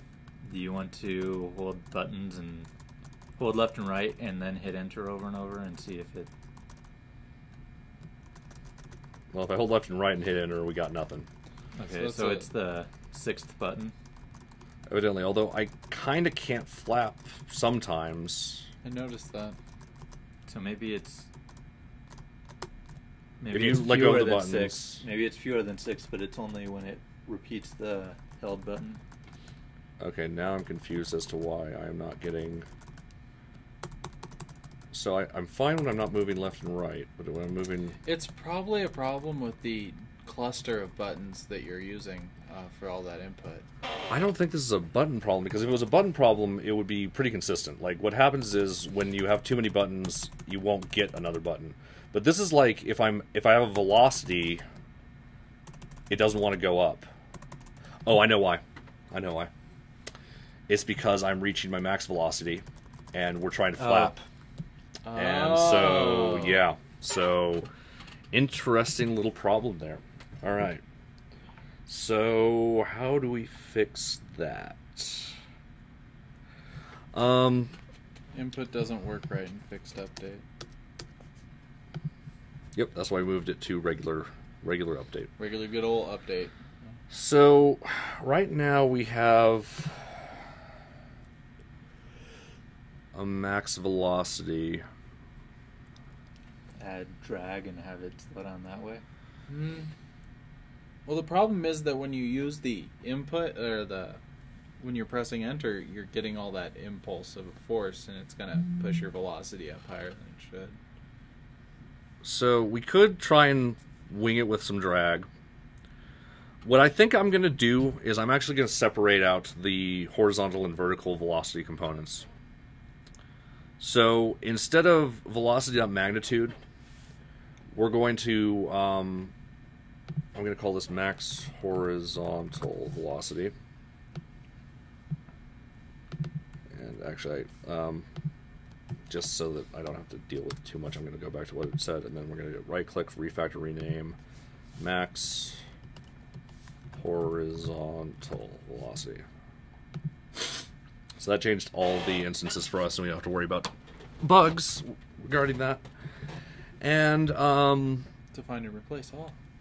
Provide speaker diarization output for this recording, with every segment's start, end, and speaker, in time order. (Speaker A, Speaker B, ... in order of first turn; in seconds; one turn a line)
Speaker A: 0.4-2.7
Speaker A: 3.4-6.3
Speaker B: 9.3-11.3
Speaker A: 11.8-13.9
Speaker C: 11.9-12.5
Speaker B: 14.9-18.7
Speaker C: 18.8-19.6
Speaker A: 20.5-21.3
Speaker A: 23.4-29.0
Speaker B: 23.5-25.0
Speaker B: 30.0-32.7
Speaker B: 34.9-38.0
Speaker C: 38.0-43.7
Speaker B: 44.1-54.6
Speaker B: 56.1-57.1
Speaker B: 58.1-59.5
Speaker B: 60.7-64.2
Speaker A: 63.8-64.1
Speaker C: 65.0-66.6
Speaker B: 65.1-67.7
Speaker B: 68.3-70.8
Speaker B: 71.9-75.4
Speaker B: 77.1-77.7
Speaker C: 78.3-80.4
Speaker B: 82.8-85.3
Speaker C: 85.4-86.5
Speaker B: 87.1-90.2
Speaker B: 93.1-94.8
Speaker A: 96.8-99.0
Speaker C: 99.5-99.9
Speaker C: 101.1-104.2
Speaker C: 104.8-110.8
Speaker B: 112.2-115.3
Speaker B: 116.6-122.3
Speaker B: 123.8-126.6
Speaker B: 127.7-129.3
Speaker B: 130.3-133.5
Speaker B: 136.7-138.1
Speaker B: 139.1-144.2
Speaker B: 144.8-145.6
Speaker B: 147.0-149.2
Speaker B: 151.2-155.8
Speaker B: 156.8-158.1
Speaker C: 158.3-159.3